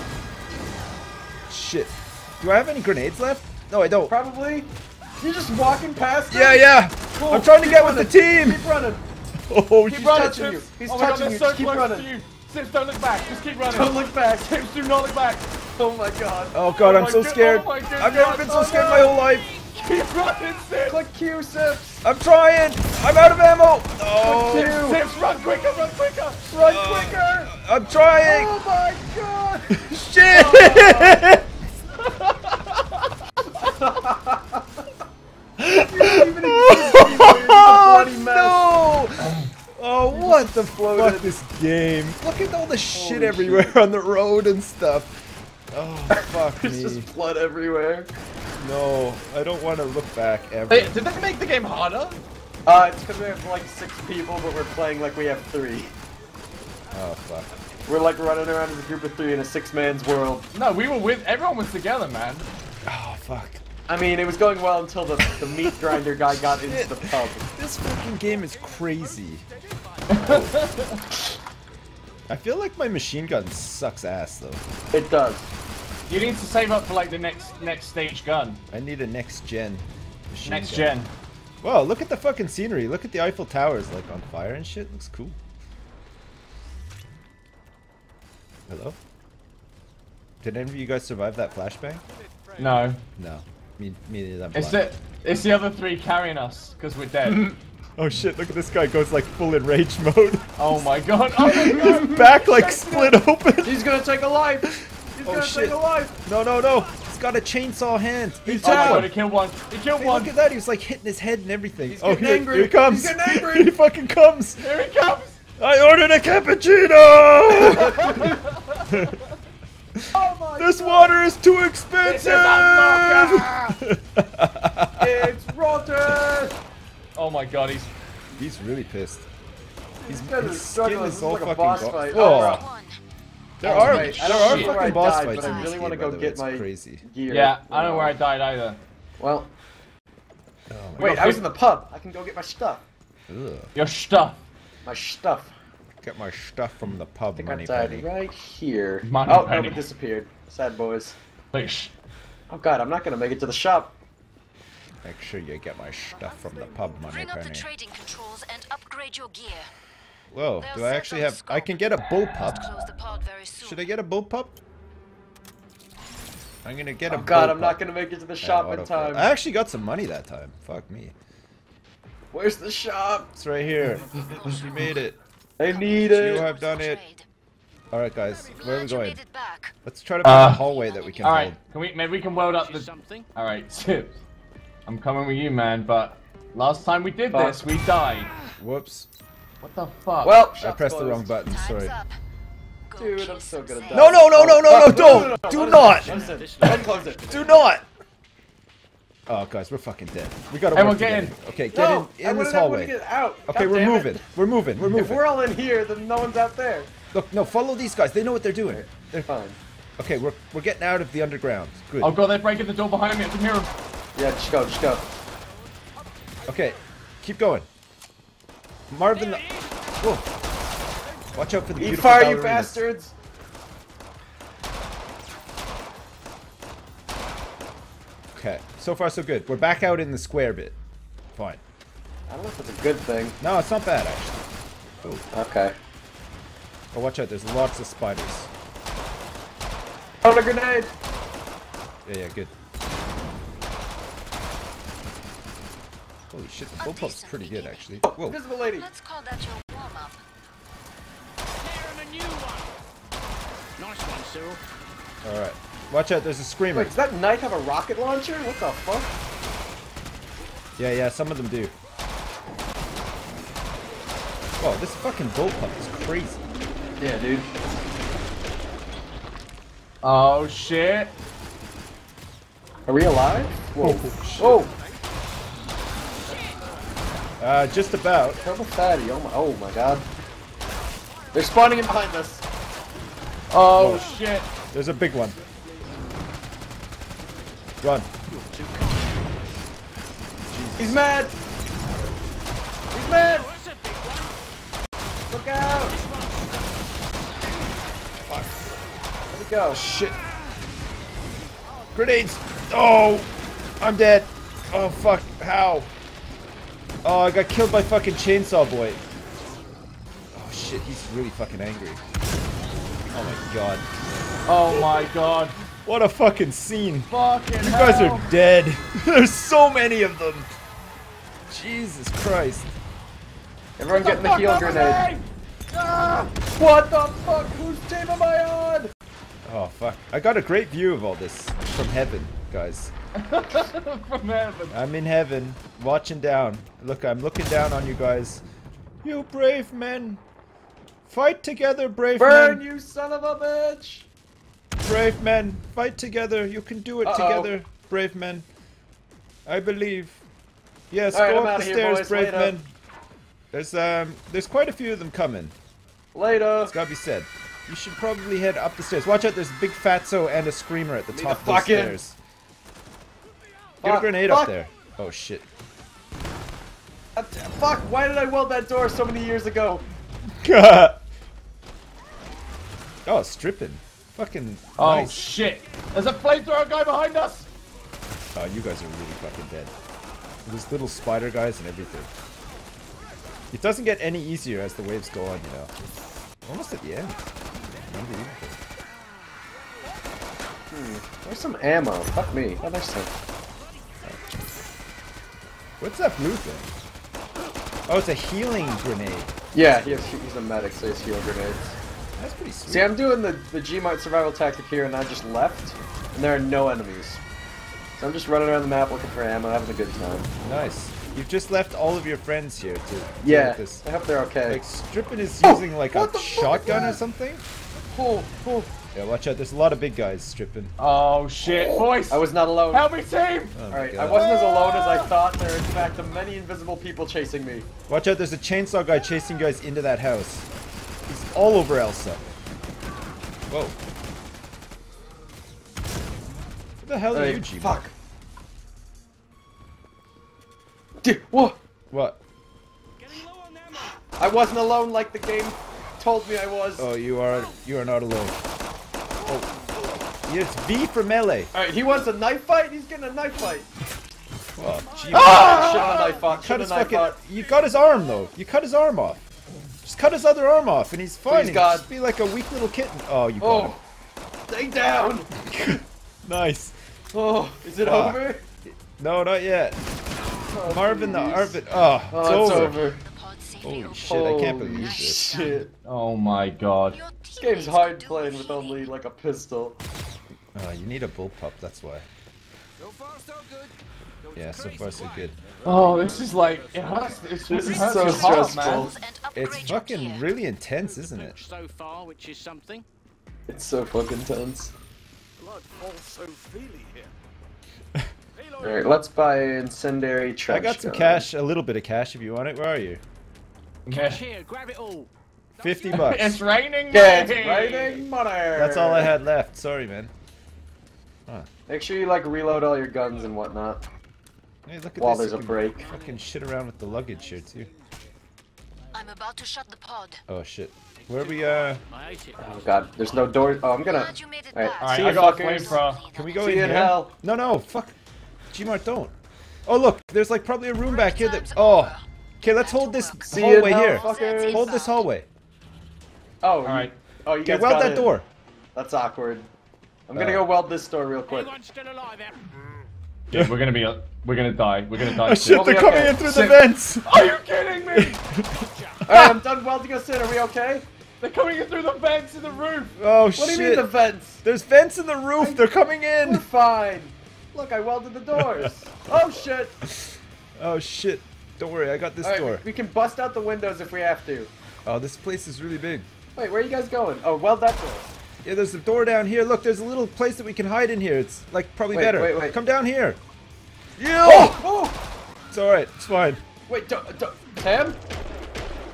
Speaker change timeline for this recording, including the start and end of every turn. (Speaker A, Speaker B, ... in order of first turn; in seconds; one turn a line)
Speaker A: 1.5-4.1
Speaker B: 4.1-9.0
Speaker A: 6.3-8.6
Speaker A: 9.5-10.3
Speaker C: 9.9-15.5
Speaker B: 9.9-12.1
Speaker B: 13.7-14.5
Speaker B: 15.8-16.6
Speaker A: 16.5-19.5
Speaker C: 16.8-19.1
Speaker B: 18.3-19.1
Speaker C: 19.7-21.0
Speaker B: 20.9-22.1
Speaker A: 22.0-24.8
Speaker B: 24.2-25.0
Speaker C: 24.4-26.6
Speaker B: 26.5-27.5
Speaker A: 26.6-28.5
Speaker B: 28.1-31.2
Speaker A: 29.7-31.6
Speaker B: 33.6-34.6
Speaker A: 35.6-47.1
Speaker B: 35.6-38.6
Speaker B: 40.1-41.3
Speaker B: 42.9-43.7
Speaker B: 46.6-48.1
Speaker A: 48.6-51.0
Speaker C: 50.7-52.2
Speaker B: 52.6-55.9
Speaker A: 56.9-57.5
Speaker B: 57.9-60.5
Speaker C: 60.5-62.5
Speaker A: 62.9-63.6
Speaker B: 63.9-67.5
Speaker A: 65.3-65.8
Speaker A: 66.5-69.5
Speaker C: 70.1-71.0
Speaker A: 70.2-70.6
Speaker A: 72.3-74.6
Speaker B: 74.9-75.5
Speaker C: 76.1-78.6
Speaker A: 78.7-81.0
Speaker C: 80.5-81.1
Speaker A: 81.6-85.4
Speaker A: 88.7-89.0
Speaker A: 90.4-92.0
Speaker C: 92.6-93.0
Speaker A: 93.2-94.9
Speaker C: 94.5-97.5
Speaker B: 97.2-97.6
Speaker A: 98.0-103.9
Speaker C: 100.6-103.2
Speaker B: 101.7-102.2
Speaker B: 103.6-106.2
Speaker A: 104.6-109.1
Speaker B: 108.5-109.1
Speaker C: 108.6-110.3
Speaker A: 110.0-114.7
Speaker B: 111.9-113.7
Speaker C: 114.6-115.4
Speaker A: 115.6-118.3
Speaker B: 117.7-118.4
Speaker C: 117.9-118.9
Speaker A: 118.9-119.2
Speaker A: 120.0-125.2
Speaker B: 120.1-121.2
Speaker C: 122.0-123.8
Speaker B: 125.0-126.5
Speaker C: 127.2-127.9
Speaker A: 128.4-129.3
Speaker B: 130.0-132.6
Speaker A: 130.1-132.7
Speaker D: 132.1-133.0
Speaker A: 133.6-137.0
Speaker B: 133.6-138.2
Speaker D: 133.6-135.7
Speaker C: 133.9-134.7
Speaker C: 137.3-138.8
Speaker B: 139.2-139.5
Speaker A: 140.7-141.4
Speaker C: 141.0-141.4
Speaker B: 141.0-142.8
Speaker A: 143.3-143.8
Speaker C: 143.8-144.4
Speaker B: 144.9-145.5
Speaker A: 146.0-148.1
Speaker B: 147.4-151.2
Speaker C: 149.0-149.9
Speaker C: 151.5-151.9
Speaker B: 152.5-153.9
Speaker A: 155.0-157.7
Speaker D: 157.1-159.7
Speaker A: 160.3-162.7
Speaker D: 160.6-163.9
Speaker A: 163.6-164.6
Speaker A: 166.6-167.8
Speaker B: 167.1-169.3
Speaker A: 168.4-171.1
Speaker B: 172.3-173.3
Speaker A: 173.4-175.2
Speaker B: 175.6-176.5
Speaker D: 175.7-177.2
Speaker A: 176.1-177.0
Speaker A: 177.9-179.2
Speaker D: 178.4-179.8
Speaker A: 179.8-181.6
Speaker C: 180.2-180.7
Speaker D: 180.4-181.5
Speaker C: 181.2-184.2
Speaker E: 182.6-183.3
Speaker C: 184.9-188.3
Speaker B: 187.3-187.7
Speaker A: 188.6-189.1
Speaker C: 189.6-190.4
Speaker B: 190.2-191.3
Speaker A: 190.6-191.9
Speaker D: 191.5-192.2
Speaker D: 192.9-194.3
Speaker B: 193.0-197.6
Speaker A: 193.9-197.9
Speaker E: 195.6-197.2
Speaker A: 199.3-202.9
Speaker C: 200.7-201.3
Speaker B: 201.7-204.2
Speaker A: 203.5-205.2
Speaker B: 204.8-206.9
Speaker A: 207.1-209.3
Speaker B: 208.7-209.6
Speaker A: 210.0-212.2
Speaker C: 212.0-213.7
Speaker B: 214.2-215.1
Speaker A: 216.5-217.7
Speaker A: 218.9-219.4
Speaker E: 219.2-219.9
Speaker A: 220.0-220.3
Speaker A: 221.3-222.8
Speaker B: 221.8-223.1
Speaker A: 228.3-230.8
Speaker A: 231.3-231.6
Speaker B: 232.3-233.4
Speaker A: 233.4-234.4
Speaker B: 235.3-235.8
Speaker A: 236.9-238.5
Speaker B: 240.2-240.9
Speaker A: 242.1-242.5
Speaker A: 246.3-248.4
Speaker D: 246.8-248.0
Speaker B: 248.1-248.9
Speaker D: 248.7-250.2
Speaker E: 251.5-252.8
Speaker E: 253.8-254.6
Speaker A: 255.2-256.9
Speaker B: 256.7-259.1
Speaker A: 260.8-261.7
Speaker A: 264.6-266.4
Speaker B: 267.0-267.5
Speaker C: 270.0-271.1
Speaker B: 272.9-274.7
Speaker A: 273.8-274.6
Speaker A: 277.4-278.4
Speaker B: 278.4-280.1
Speaker B: 281.3-282.4
Speaker C: 283.5-284.5
Speaker A: 283.8-284.1
Speaker A: 284.7-285.4
Speaker A: 287.8-288.1
Speaker E: 288.3-289.2
Speaker A: 290.5-291.0
Speaker B: 290.8-291.3
Speaker B: 292.9-293.5
Speaker E: 293.1-294.4
Speaker B: 295.3-296.0
Speaker E: 295.9-296.7
Speaker A: 298.3-298.6
Speaker B: 299.3-299.8
Speaker A: 299.7-300.2
Speaker A: 301.9-303.3
Speaker A: 303.8-305.9
Speaker A: 307.0-309.0
Speaker A: 310.3-312.0
Speaker A: 313.1-313.9
Speaker C: 314.4-315.6
Speaker A: 314.7-315.1
Speaker A: 315.9-320.5
Speaker C: 317.1-318.4
Speaker A: 321.5-322.7
Speaker B: 323.8-325.1
Speaker C: 323.9-326.3
Speaker B: 326.4-328.9
Speaker A: 329.4-332.9
Speaker C: 333.2-334.8
Speaker A: 334.7-338.4
Speaker A: 339.0-340.2
Speaker A: 341.1-342.6
Speaker B: 342.2-344.1
Speaker A: 344.8-348.4
Speaker B: 347.0-347.5
Speaker A: 349.4-350.2
Speaker A: 350.9-352.7
Speaker B: 351.1-352.5
Speaker A: 353.5-355.5
Speaker B: 356.1-356.7
Speaker A: 356.6-362.2
Speaker B: 361.1-362.0
Speaker B: 363.8-364.5
Speaker A: 363.8-365.4
Speaker B: 367.2-369.9
Speaker A: 370.4-371.0
Speaker A: 373.1-375.2
Speaker C: 374.8-377.5
Speaker A: 378.3-379.7
Speaker A: 380.4-382.1
Speaker A: 383.5-385.7
Speaker A: 386.4-387.2
Speaker A: 387.9-388.6
Speaker B: 390.7-393.1
Speaker A: 395.8-396.7
Speaker A: 397.9-400.1
Speaker B: 399.5-401.8
Speaker A: 402.2-402.9
Speaker B: 402.7-407.2
Speaker B: 408.0-410.3
Speaker A: 410.4-413.8
Speaker B: 413.2-414.6
Speaker A: 414.4-417.4
Speaker B: 415.4-417.0
Speaker B: 417.9-418.7
Speaker A: 418.9-420.7
Speaker C: 420.8-423.6
Speaker B: 422.1-422.9
Speaker A: 423.5-424.4
Speaker B: 423.7-427.7
Speaker A: 427.9-430.5
Speaker A: 431.1-432.2
Speaker A: 433.5-433.8
Speaker A: 436.8-437.8
Speaker B: 437.1-437.9
Speaker B: 441.0-441.6
Speaker A: 441.9-442.2
Speaker E: 443.0-444.0
Speaker B: 444.2-446.9
Speaker A: 446.8-448.4
Speaker A: 450.2-451.5
Speaker B: 451.5-453.7
Speaker A: 454.6-459.2
Speaker E: 454.9-455.2
Speaker C: 455.1-456.1
Speaker B: 455.2-457.2
Speaker A: 459.8-463.8
Speaker B: 461.3-461.9
Speaker B: 463.4-463.8
Speaker B: 464.5-465.3
Speaker A: 465.4-466.7
Speaker B: 467.1-468.4
Speaker A: 467.8-469.8
Speaker B: 470.5-471.6
Speaker A: 470.6-472.8
Speaker B: 472.1-473.0
Speaker D: 472.2-475.6
Speaker A: 473.6-475.2
Speaker B: 474.0-475.7
Speaker C: 475.9-477.0
Speaker D: 476.9-478.9
Speaker B: 477.4-479.8
Speaker A: 480.6-482.1
Speaker E: 482.8-487.8
Speaker A: 484.4-485.4
Speaker C: 485.6-488.9
Speaker B: 487.5-488.9
Speaker D: 487.5-490.3
Speaker A: 489.4-491.4
Speaker E: 490.8-492.9
Speaker B: 493.5-494.7
Speaker E: 495.4-497.1
Speaker E: 498.4-498.9
Speaker B: 498.6-501.2
Speaker A: 500.5-503.0
Speaker C: 503.9-504.2
Speaker E: 503.9-506.2
Speaker A: 505.6-506.4
Speaker C: 505.9-508.0
Speaker B: 506.9-509.1
Speaker A: 508.5-510.1
Speaker B: 511.7-513.8
Speaker A: 514.6-517.7
Speaker B: 515.0-515.9
Speaker D: 518.9-520.2
Speaker A: 520.3-521.8
Speaker E: 521.0-522.6
Speaker B: 522.4-525.8
Speaker D: 523.9-526.8
Speaker C: 524.8-526.0
Speaker A: 526.1-527.9
Speaker B: 526.4-527.1
Speaker A: 528.5-529.1
Speaker A: 529.6-535.3
Speaker D: 530.8-535.1
Speaker B: 533.3-534.7
Speaker B: 536.4-538.1
Speaker C: 536.6-537.0
Speaker A: 537.4-538.2
Speaker B: 538.8-539.5
Speaker B: 540.1-541.5
Speaker A: 540.1-540.5
Speaker E: 541.3-542.5
Speaker C: 543.3-548.2
Speaker A: 545.0-547.1
Speaker B: 545.5-546.3
Speaker A: 547.9-549.4
Speaker E: 548.5-549.0
Speaker B: 549.0-550.9
Speaker C: 551.2-553.0
Speaker A: 553.0-553.9
Speaker B: 553.4-554.4
Speaker A: 554.4-556.5
Speaker B: 555.4-555.7
Speaker B: 556.2-559.8
Speaker A: 558.4-558.7
Speaker A: 559.8-562.6
Speaker B: 562.2-564.5
Speaker A: 564.9-566.1
Speaker B: 566.4-568.1
Speaker A: 568.4-573.2
Speaker B: 571.9-572.6
Speaker A: 574.0-574.6
Speaker B: 574.2-575.0
Speaker A: 575.5-576.4
Speaker B: 576.7-578.0